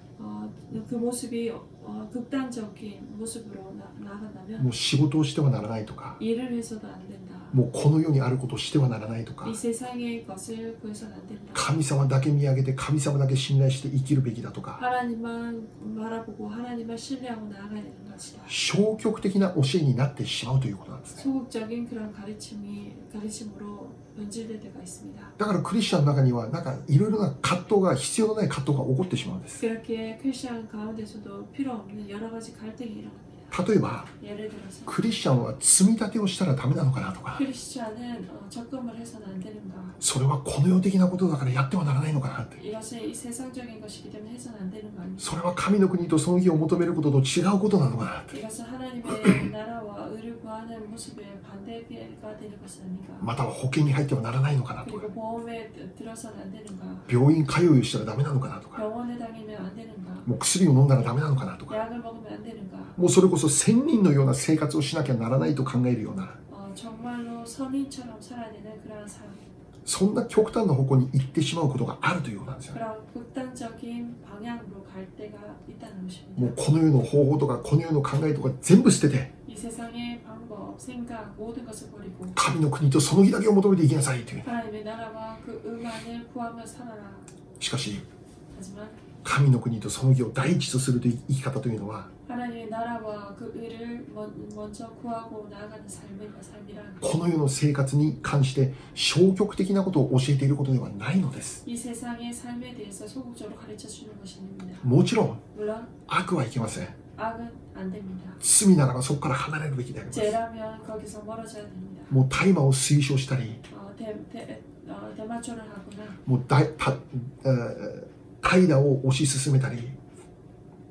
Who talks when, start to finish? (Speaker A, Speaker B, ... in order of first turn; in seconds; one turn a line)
Speaker A: 0.2-4.7
Speaker B: 4.6-6.2
Speaker A: 6.2-7.6
Speaker B: 7.5-9.6
Speaker A: 9.4-11.7
Speaker B: 11.5-14.8
Speaker A: 14.8-18.5
Speaker B: 18.5-21.3
Speaker A: 21.2-25.3
Speaker B: 25.4-29.6
Speaker A: 29.6-33.5
Speaker B: 33.5-34.1
Speaker A: 34.2-35.1
Speaker B: 34.9-37.4
Speaker A: 37.3-40.0
Speaker B: 40.0-42.6
Speaker A: 42.6-45.3
Speaker B: 45.2-48.4
Speaker A: 48.3-53.3
Speaker B: 53.2-55.1
Speaker A: 54.8-57.1
Speaker B: 57.1-58.8
Speaker A: 58.8-60.3
Speaker B: 60.2-61.8
Speaker A: 61.7-63.0
Speaker B: 63.0-66.4
Speaker A: 66.5-69.4
Speaker B: 69.8-72.8
Speaker A: 72.7-76.6
Speaker B: 76.4-79.3
Speaker A: 79.5-82.4
Speaker B: 82.3-84.5
Speaker A: 84.4-87.3
Speaker B: 87.6-88.0
Speaker A: 88.5-89.0
Speaker B: 89.2-92.1
Speaker A: 92.2-97.1
Speaker B: 97.0-101.6
Speaker A: 101.6-104.9
Speaker B: 104.8-105.4
Speaker A: 105.5-105.9
Speaker B: 106.1-107.0
Speaker A: 107.2-108.4
Speaker B: 108.4-110.4
Speaker A: 110.1-112.1
Speaker B: 112.1-113.6
Speaker A: 113.7-116.2
Speaker B: 116.2-120.0